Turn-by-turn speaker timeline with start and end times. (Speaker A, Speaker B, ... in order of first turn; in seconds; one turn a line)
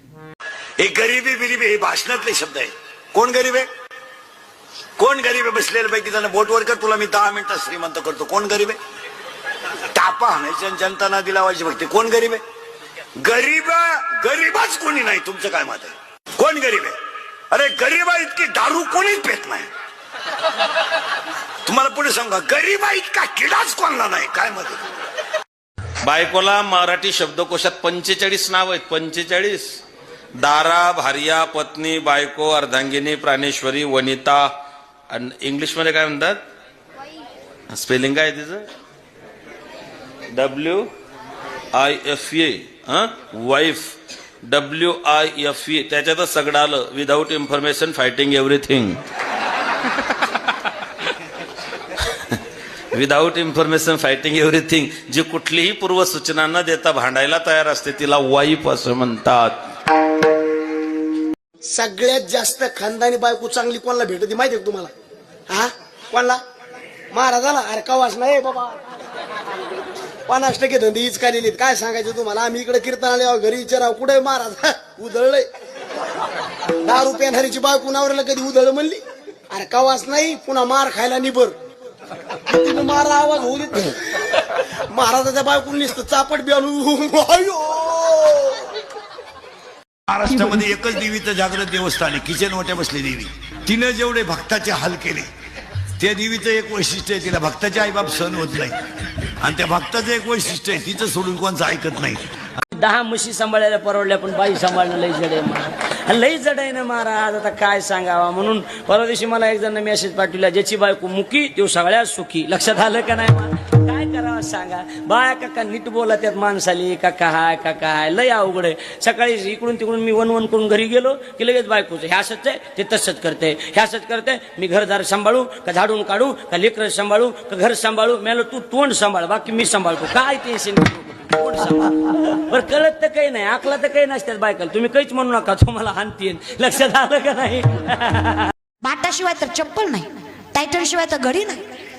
Speaker A: 0.8-3.7
Speaker A: 5.0-8.8
Speaker A: 9.9-12.4
Speaker A: 13.2-16.9
Speaker A: 17.5-19.7
Speaker A: 21.6-24.8
Speaker B: 26.0-29.8
Speaker B: 30.4-34.5
Speaker B: 35.1-36.4
Speaker B: 37.7-38.6
Speaker B: 40.3-40.9
Speaker B: 41.7-49.0
Speaker B: 52.9-59.5
Speaker C: 61.8-64.9
Speaker C: 65.5-66.4
Speaker C: 67.2-68.7
Speaker C: 70.3-75.4
Speaker C: 76.9-79.0
Speaker C: 79.5-81.5
Speaker C: 82.6-83.8
Speaker C: 84.9-88.0
Speaker A: 90.1-95.3
Speaker A: 96.0-98.8
Speaker A: 99.4-102.2
Speaker D: 102.7-138.5
Speaker E: 138.8-141.6